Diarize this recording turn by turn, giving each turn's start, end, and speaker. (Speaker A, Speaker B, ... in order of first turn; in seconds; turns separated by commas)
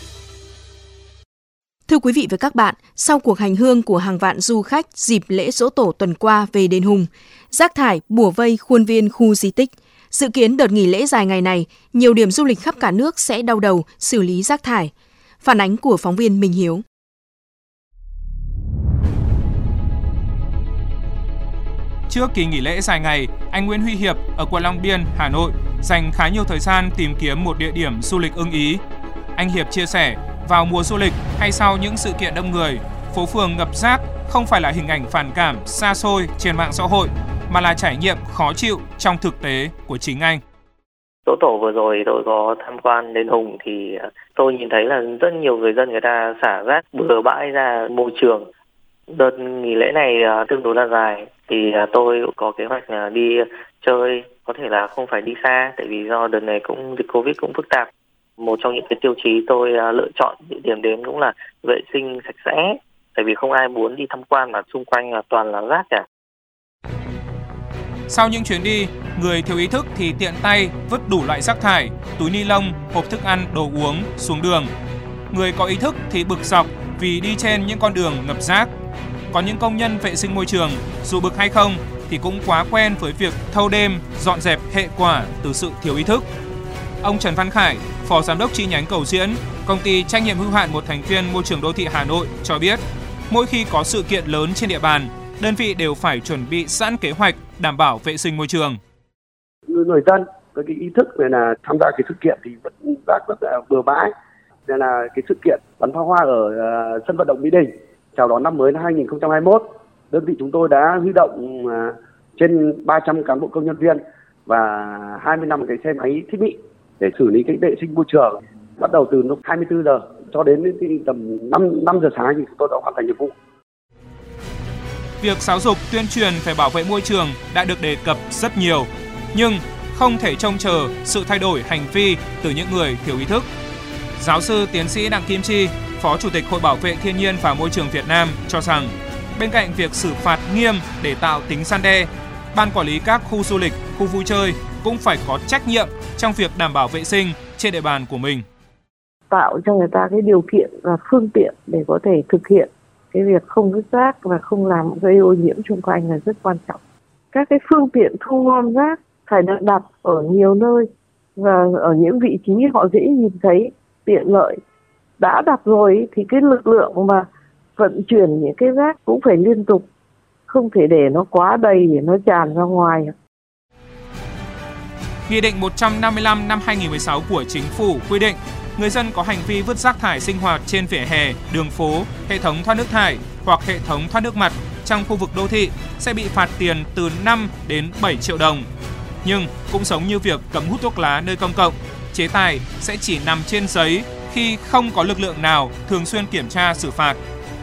Speaker A: 1.9-16.8, Speaker B: 22.1-28.8, Speaker B: 29.4-40.4, Speaker C: 41.2-48.5, Speaker C: 49.1-66.0, Speaker B: 68.1-74.7, Speaker B: 75.3-78.7, Speaker B: 79.3-86.3, Speaker B: 87.0-98.8, Speaker D: 99.7-104.1, Speaker D: 104.7-123.3, Speaker B: 125.2-133.5, Speaker B: 134.2-148.4, Speaker E: 149.3-156.8, Speaker E: 157.3-164.6, Speaker E: 165.2-169.9, Speaker E: 170.5-173.1, Speaker B: 175.3-188.7, Speaker B: 189.2-197.2